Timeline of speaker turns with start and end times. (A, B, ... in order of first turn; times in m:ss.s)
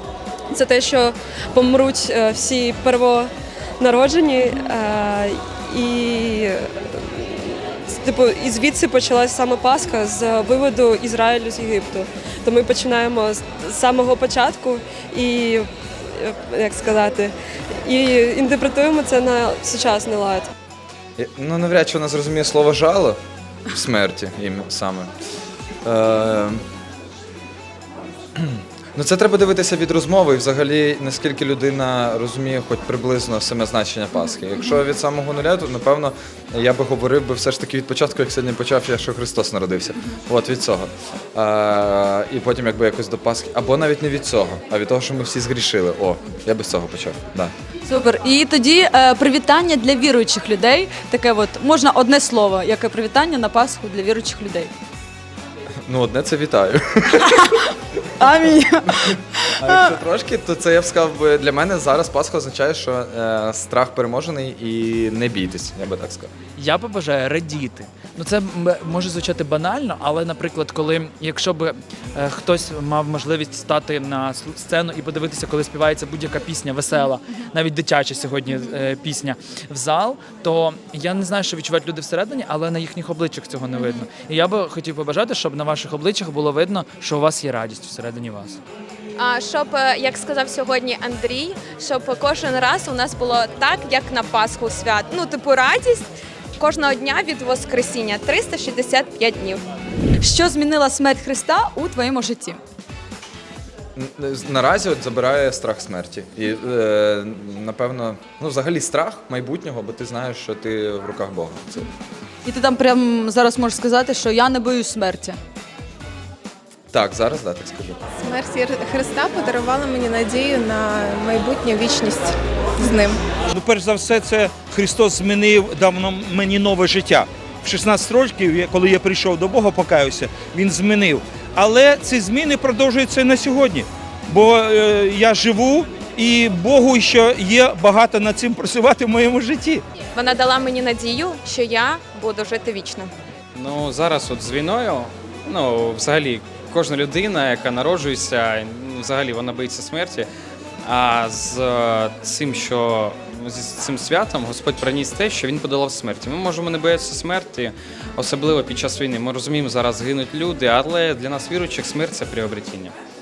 0:00.5-0:17.3 A
0:17.8-0:20.5 A
0:21.2-0:25.1 B
0:25.8-0:26.6 B
0:28.4-0:47.5 B
0:47.8-0:54.7 C
0:55.9-0:57.5 B
0:58.2-1:00.0 C
0:58.9-1:06.3 B
1:06.6-1:28.6 D
1:29.2-1:39.6 E
1:40.2-1:42.6 C
1:44.0-1:51.9 B
1:52.4-1:55.4 C
1:56.9-1:58.0 B
1:58.2-2:03.2 F
2:03.5-2:19.8 G
2:20.1-2:23.1 E
2:23.5-2:30.3 H
2:30.8-2:42.9 H